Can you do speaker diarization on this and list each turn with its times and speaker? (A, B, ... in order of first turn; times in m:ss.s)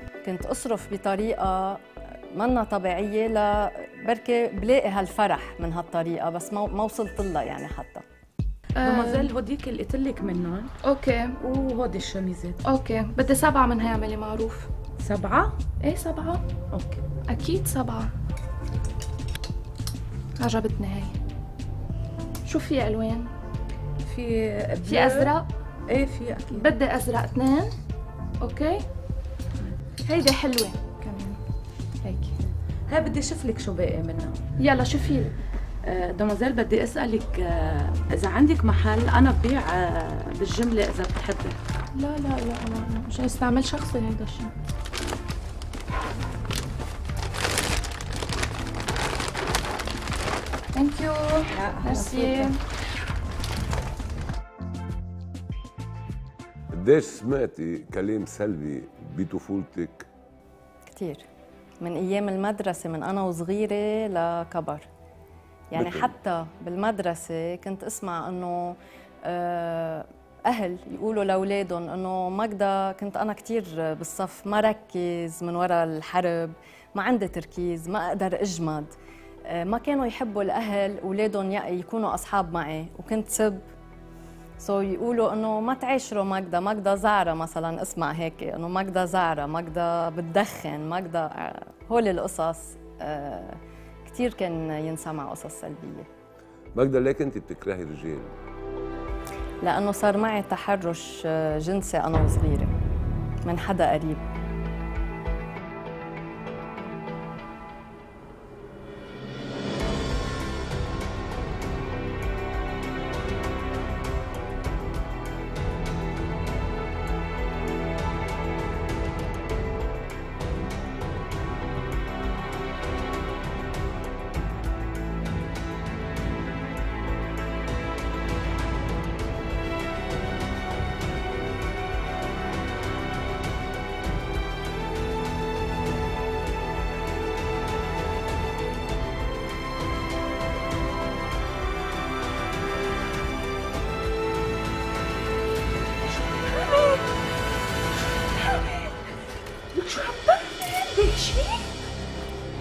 0:00.2-0:08.0 A
0:08.8-0:09.3 B
0:08.8-0:10.7 C
0:10.8-0:11.4 B
0:11.4-0:12.6 C
0:12.6-0:14.7 B
0:15.0-0:15.6 C
0:15.8-0:16.4 B
0:16.7-0:17.0 C
0:17.2-0:18.1 B
0:20.4-0:21.2 B
0:22.4-0:23.3 B
0:24.0-0:25.3 C
0:24.8-0:25.5 B
0:25.9-0:26.7 C
0:26.5-0:27.7 B
0:28.4-0:28.8 B
0:30.0-0:31.4 B
0:32.9-0:34.4 C
0:34.6-0:35.3 B
0:35.8-0:41.5 C
0:41.9-0:44.5 B
0:50.7-0:52.6 B
0:51.6-0:52.5 C
0:56.7-1:00.1 D
1:00.8-1:01.2 A
1:01.8-1:04.8 A
1:05.7-1:18.9 A
1:05.7-1:06.1 D
1:19.4-1:23.6 A
1:24.6-1:36.1 A
1:36.7-1:38.4 D
1:39.6-1:42.7 A
1:43.4-1:44.2 A